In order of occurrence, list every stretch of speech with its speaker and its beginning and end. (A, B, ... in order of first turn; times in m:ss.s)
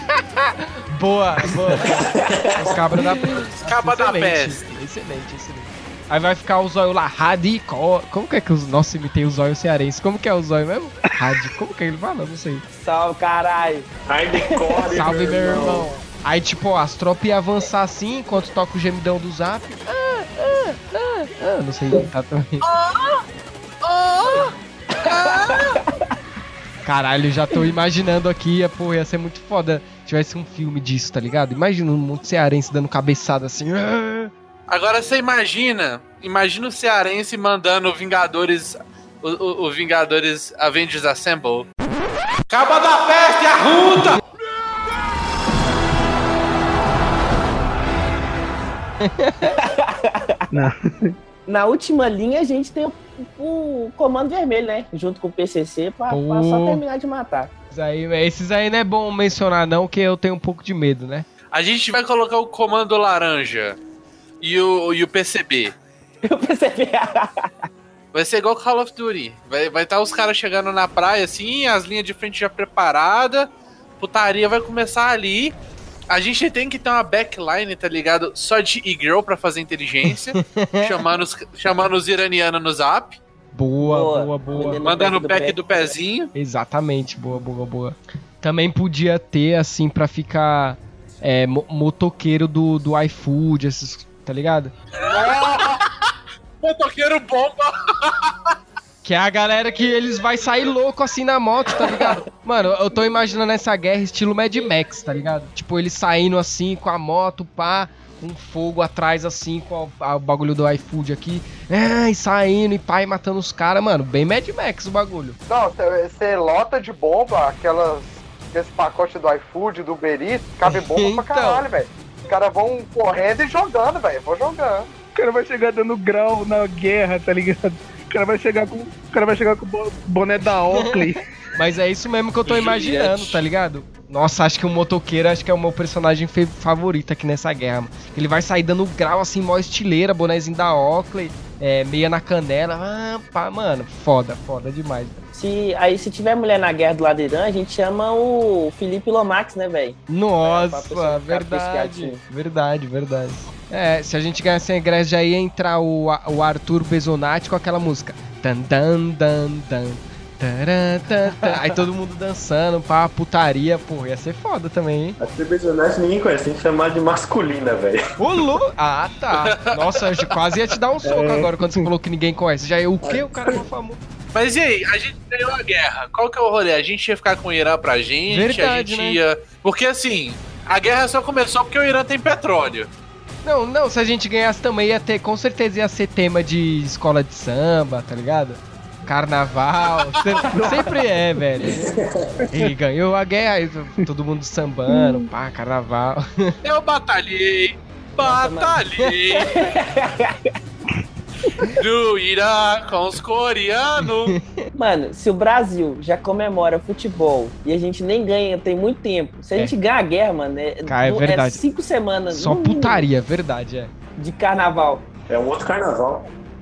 0:00.1-0:02.0 A
0:02.5-0:12.6 A
0:03.6-0:04.6 B
0:12.7-0:14.8 C
0:14.1-0:15.9 D
0:14.9-0:22.6 A
0:22.6-0:23.2 B
0:23.8-0:25.8 B
0:25.3-0:25.8 C
0:26.8-0:34.3 A
0:34.7-0:41.7 B
0:42.5-0:44.2 B
0:49.0-0:49.5 A
0:49.6-0:50.4 C
0:50.5-0:51.2 E
0:51.5-0:57.5 C
0:56.1-0:56.8 A
0:57.7-1:01.3 A
1:01.5-1:03.8 B
1:04.4-1:05.8 B
1:06.2-1:07.5 C
1:08.1-1:15.5 B
1:16.1-1:23.2 B
1:20.3-1:21.0 A
1:23.5-1:24.8 A
1:23.8-1:25.7 C
1:24.6-1:26.3 B
1:26.3-1:34.7 A
1:34.9-1:35.9 B
1:35.0-1:35.8 F
1:36.6-1:38.5 B
1:39.0-1:55.4 A
1:41.9-1:42.2 C
1:55.5-2:04.9 F
2:00.6-2:01.6 A
2:05.1-2:11.2 E
2:10.7-2:11.0 A
2:11.5-2:25.2 A
2:12.5-2:13.4 E
2:25.3-2:32.2 C
2:30.1-2:45.2 A
2:45.2-2:48.0 D
2:48.2-2:54.0 A
2:49.4-2:50.2 B
2:51.3-2:51.8 E
2:53.0-2:53.6 D
2:54.3-3:02.9 B
2:58.3-2:59.2 A
3:03.4-3:11.8 A
3:10.5-3:11.4 E
3:11.7-3:12.3 D
3:12.5-3:16.6 A
3:16.6-3:19.8 B
3:18.2-3:18.8 C
3:19.3-3:20.4 C
3:21.8-3:24.4 B
3:24.3-3:24.7 A
3:24.8-3:33.0 C
3:30.8-3:31.6 A
3:32.3-3:33.9 A
3:34.2-3:35.0 C
3:35.3-3:36.3 D